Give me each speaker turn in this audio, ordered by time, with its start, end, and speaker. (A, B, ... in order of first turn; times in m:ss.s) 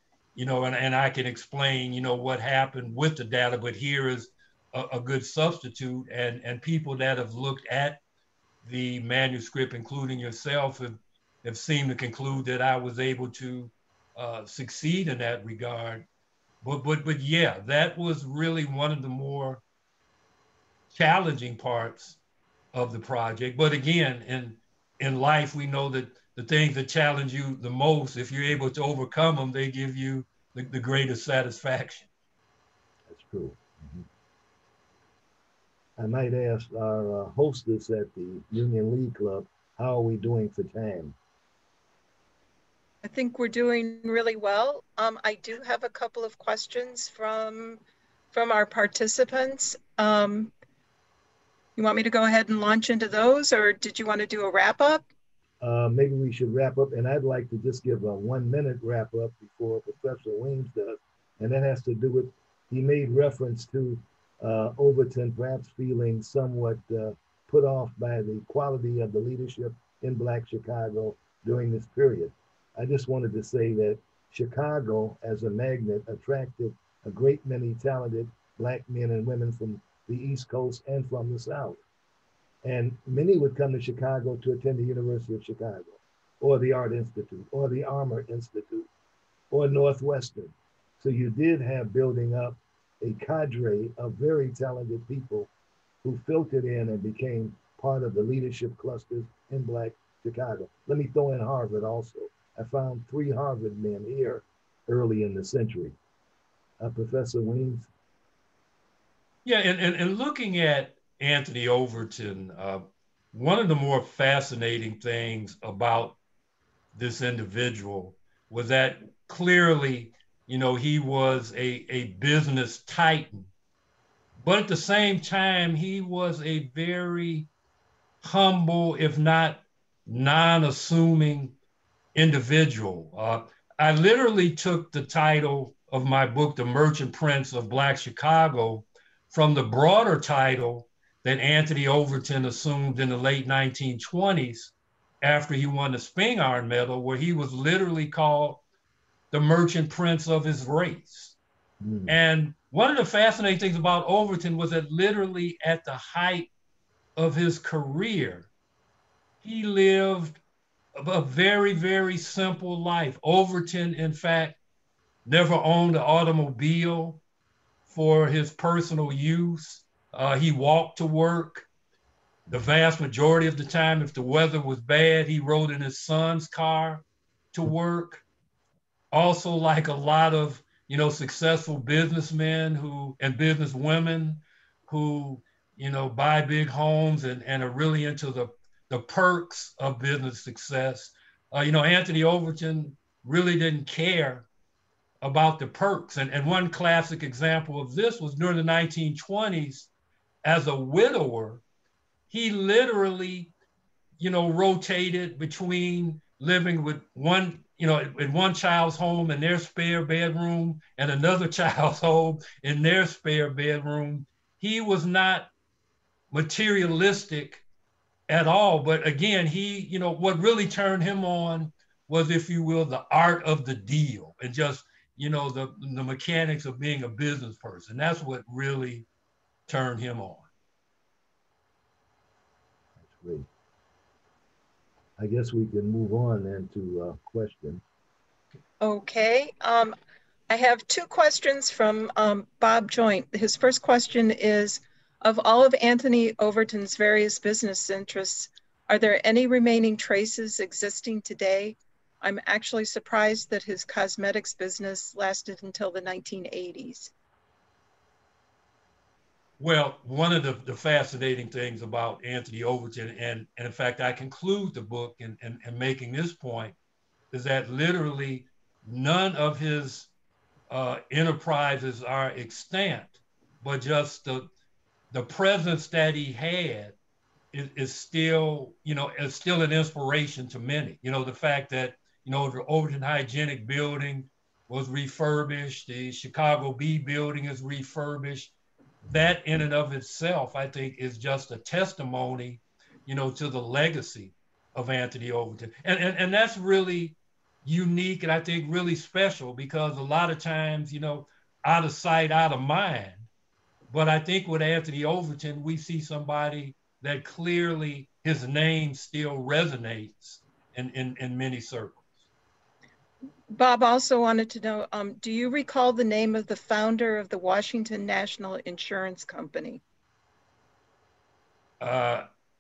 0:00.4-0:08.0 A
0:08.6-0:16.0 A
0:16.6-0:19.6 A
0:20.9-0:22.2 A
0:22.7-0:32.1 A
0:33.1-0:34.0 B
0:36.0-0:41.2 B
0:43.0-0:47.8 C
0:48.3-0:50.5 C
0:51.8-0:55.1 C
0:55.6-1:21.8 B
1:22.6-1:28.9 B
1:29.5-1:35.5 B
1:36.0-1:46.0 B
1:46.8-1:47.9 B
1:49.4-1:56.2 A
1:57.0-2:03.5 A
2:04.4-2:07.5 A
2:08.2-2:11.6 A
2:12.2-2:28.6 A
2:29.3-2:31.4 A
2:31.8-2:32.1 B
2:32.1-2:36.5 A
2:37.2-2:38.5 A
2:39.4-2:40.4 A
2:41.0-2:44.6 A
2:45.3-2:47.2 A
2:47.9-2:51.7 A
2:52.5-2:58.2 A
2:59.1-3:14.5 A
3:15.2-3:19.9 A
3:20.4-3:21.6 A
3:22.3-3:23.5 A
3:24.2-3:35.5 A
3:36.3-3:37.6 A
3:38.3-3:49.1 A
3:49.7-3:50.5 A
3:53.0-3:53.5 B
3:55.2-3:57.8 B
3:58.8-3:59.9 C
4:00.5-4:17.1 C
4:19.6-4:26.8 A
4:27.3-4:30.1 A
4:30.7-4:34.5 A
4:35.1-4:37.0 A
4:37.5-4:48.5 A
4:49.1-5:03.3 A
5:03.9-5:12.0 A
5:13.5-5:19.8 C
5:21.8-5:22.3 A